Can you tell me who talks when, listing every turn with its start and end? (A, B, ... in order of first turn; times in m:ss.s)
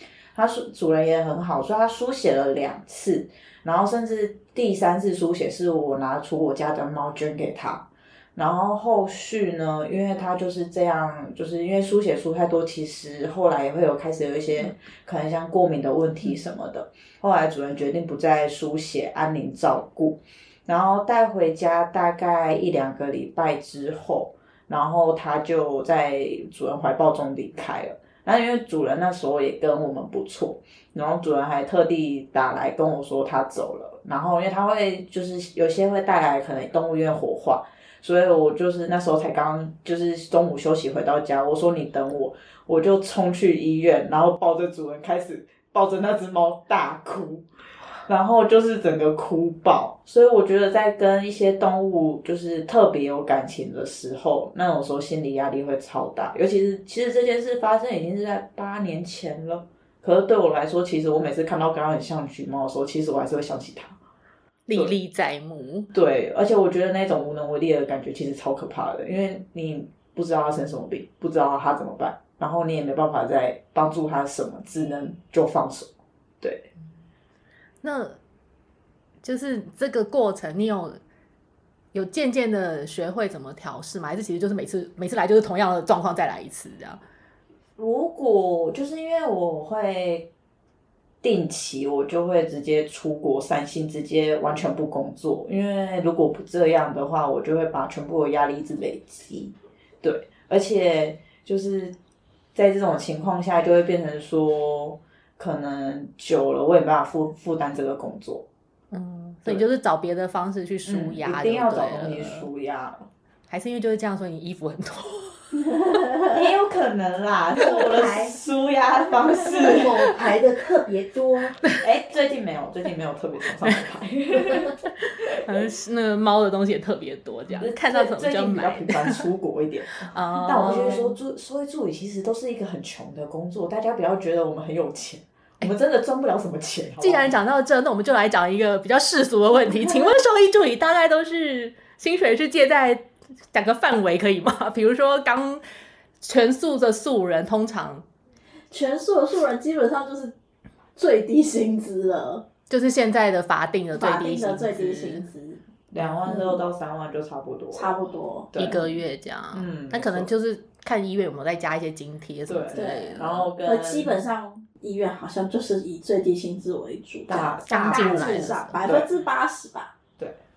0:00.3-0:47.4 A
0:48.0-1:04.0 A
1:04.7-1:05.9 B
1:05.9-1:16.6 A
1:17.8-1:18.2 B
1:19.2-1:21.0 B
1:21.9-1:27.0 B
1:27.8-1:30.3 A
1:31.2-1:42.0 A
1:42.5-1:48.4 A
1:48.9-1:52.5 B
1:50.8-1:53.1 A
1:53.5-1:56.0 B
1:55.8-1:56.4 C
1:56.3-2:00.1 A
1:57.6-1:58.4 D
1:59.4-2:01.6 D
2:01.8-2:04.7 A
2:05.0-2:09.2 B
2:07.5-2:17.4 A
2:10.0-2:11.1 B
2:17.0-2:25.6 B
2:26.2-2:28.0 B
2:28.7-2:30.3 C
2:31.0-2:32.4 C
2:32.7-2:35.3 B
2:34.0-2:35.6 C
2:35.9-2:38.0 A
2:36.2-2:36.6 C
2:37.7-2:38.5 C
2:38.5-2:38.9 A
2:38.6-2:43.5 B
2:39.5-2:40.3 A
2:42.5-2:44.2 A
2:42.7-2:49.9 C
2:47.3-2:49.1 A
2:47.7-2:48.8 B